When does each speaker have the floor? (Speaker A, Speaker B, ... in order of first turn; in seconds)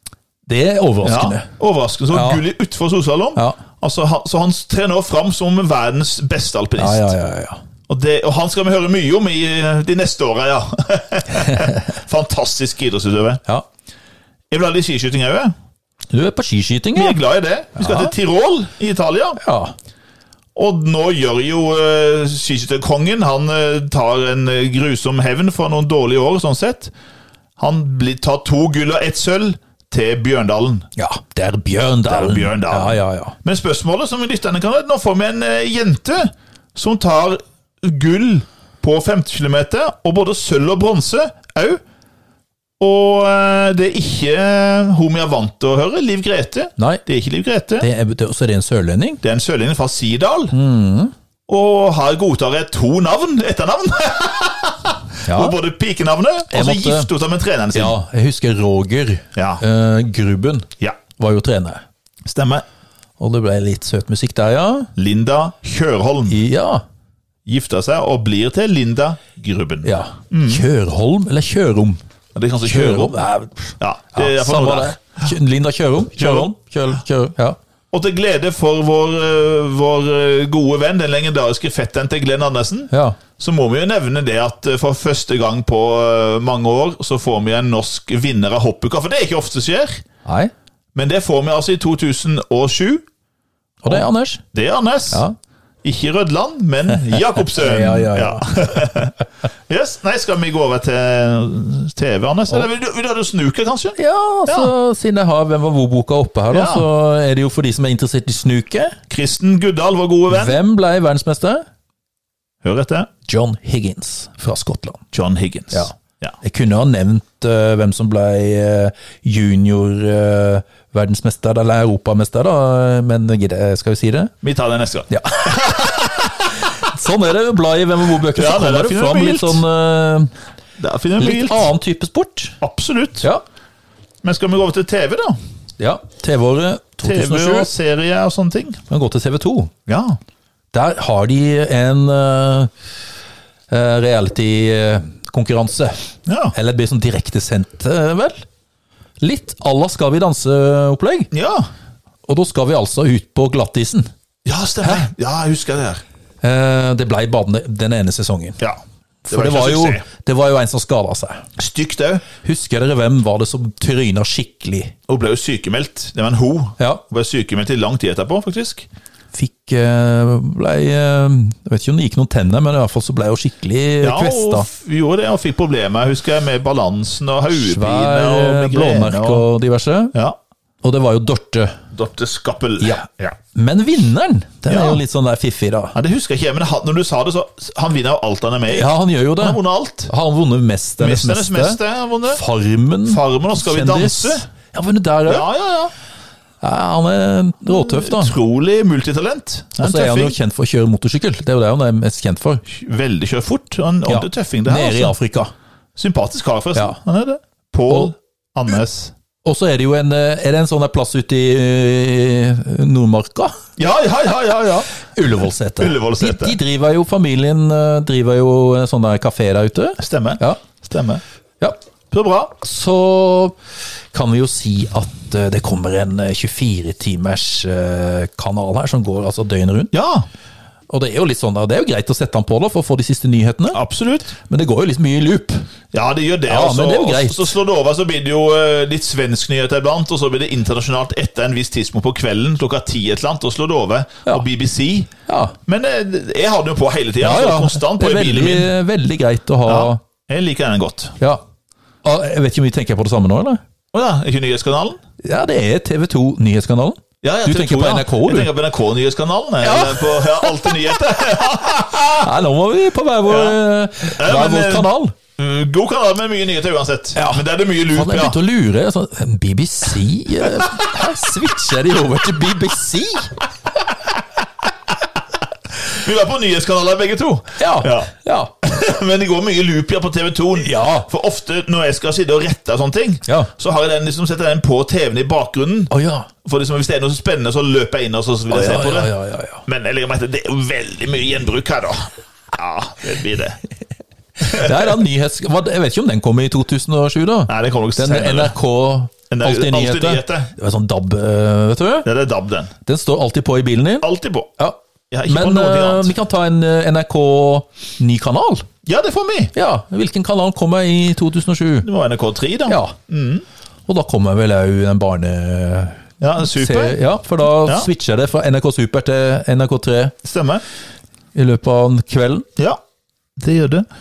Speaker A: 0.5-1.5, 2.1-2.4, 6.8-7.6, 11.3-11.9, 16.1-17.2, 17.8-18.1, 19.4-19.7, 31.0-33.4, 46.8-47.0, 47.8-49.2, 50.5-51.1, 55.3-55.6, 56.5-57.1, 57.7-61.8, 63.2-64.9, 66.3-66.8, 69.8-72.0, 72.6-77.6, 82.9-83.2, 90.2-90.5, 93.8-94.4, 95.1-95.4, 97.1-98.9, 104.0-109.0, 110.3-111.6, 113.3-115.0, 115.7-124.3, 125.1-130.3, 131.2-132.6, 135.8-137.7, 138.9-139.7, 140.7-142.7, 143.7-148.4, 149.2-151.3, 152.3-154.1, 156.4-158.6, 159.2-161.5, 162.4-164.9, 169.3-174.7, 177.5-180.2, 180.8-181.8, 182.8-186.0, 188.7-195.5, 196.6-198.3, 199.8-202.6, 204.1-205.5, 209.4-213.6, 215.1-220.6, 222.6-223.6, 224.1-229.9, 230.9-233.8, 234.4-235.7, 236.5-237.6, 245.3-245.6, 247.2-250.0, 252.0-253.6, 255.2-258.5, 259.6-261.0, 262.2-265.1, 267.1-273.4, 277.6-278.5, 280.6-281.1, 283.3-283.5, 285.9-286.3, 288.5-289.6, 294.4-302.1, 302.9-308.7, 309.5-311.9, 312.7-313.0, 313.9-320.2, 321.4-322.5
Speaker B: 1.0-7.1, 7.9-13.4, 14.5-15.5, 16.9-19.4, 20.6-26.9, 27.6-30.9, 32.1-41.8, 42.8-47.9, 49.2-50.5, 51.5-58.0, 59.4-59.6, 62.2-62.6, 65.0-66.4, 67.5-70.7, 72.3-73.2, 73.8-75.0, 76.2-76.5, 77.9-90.0, 91.0-93.0, 93.9-95.2, 95.8-99.2, 99.7-104.7, 106.5-106.9, 109.1-110.6, 112.6-113.1, 115.1-116.3, 124.4-126.6, 128.2-129.6, 130.8-131.7, 132.6-133.3, 134.2-135.4, 137.0-138.8, 139.9-140.2, 146.3-146.5, 151.3-151.7, 154.4-156.0, 159.3-160.0, 161.6-162.2, 165.1-168.9, 174.0-179.4, 181.9-183.4, 184.7-185.0, 185.9-190.1, 191.0-192.4, 193.1-194.5, 195.3-195.9, 197.7-200.4, 202.7-205.2, 206.0-209.1, 213.8-214.9, 215.8-216.6, 220.0-221.2, 222.1-222.5, 229.9-230.3, 233.7-234.4, 235.9-245.1, 245.7-248.7, 249.7-251.2, 253.9-255.0, 257.2-262.3, 263.2-263.6, 264.2-268.4, 275.9-278.1, 278.6-285.9, 286.4-289.1, 289.7-293.6, 294.4-294.9, 297.5-298.6, 299.3-300.5, 302.1-302.7, 304.0-304.5, 305.1-306.1, 308.9-309.5, 311.8-313.4, 316.2-317.0, 317.6-317.9, 320.2-320.6, 323.4-323.9